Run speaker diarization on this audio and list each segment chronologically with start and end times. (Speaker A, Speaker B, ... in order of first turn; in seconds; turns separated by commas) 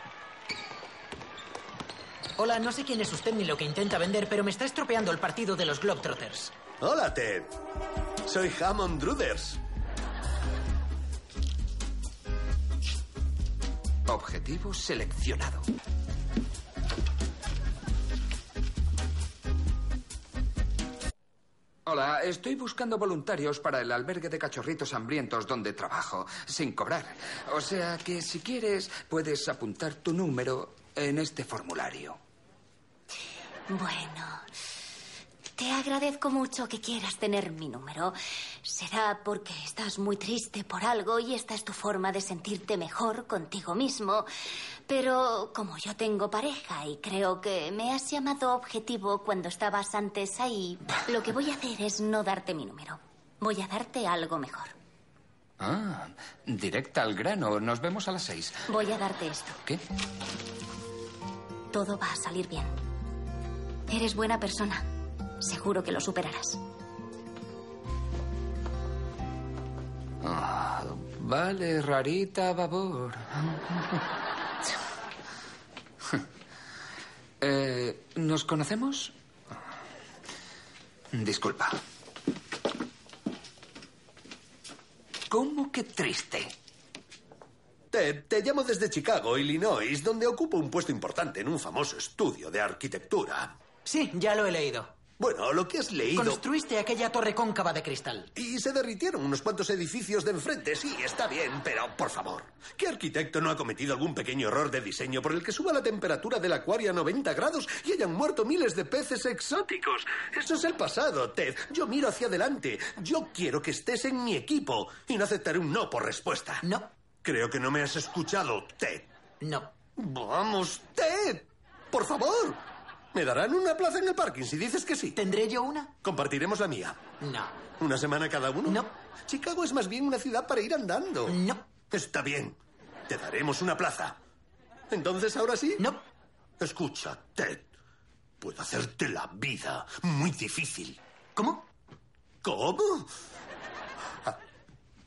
Speaker A: 2.4-6.5, Speaker B: 6.8-7.5, Speaker B: 8.3-9.6, Speaker C: 14.1-15.7, Speaker C: 21.9-32.2, Speaker D: 33.7-34.5, Speaker D: 35.6-44.3, Speaker D: 44.9-54.7, Speaker C: 55.6-58.6, Speaker D: 58.7-59.6, Speaker D: 61.7-62.8, Speaker D: 63.9-64.9, Speaker D: 65.4-66.6, Speaker C: 70.2-74.0, Speaker C: 77.4-79.1, Speaker C: 81.1-81.8, Speaker C: 85.3-86.5, Speaker B: 87.9-93.5, Speaker A: 93.8-94.9, Speaker B: 95.2-96.4, Speaker A: 96.1-98.3, Speaker B: 98.4-116.6, Speaker A: 116.6-116.9, Speaker B: 117.2-119.1, Speaker A: 119.4-119.7, Speaker B: 120.0-122.6, Speaker B: 123.1-125.2, Speaker A: 125.1-125.9, Speaker B: 126.0-127.0, Speaker A: 127.2-127.6, Speaker B: 127.8-131.4, Speaker A: 128.7-128.9, Speaker A: 131.3-131.7, Speaker B: 131.9-132.6, Speaker B: 133.1-134.2, Speaker B: 134.9-135.8, Speaker A: 135.8-136.0, Speaker B: 136.6-137.6, Speaker B: 138.4-141.0, Speaker A: 141.4-141.7, Speaker B: 142.4-143.1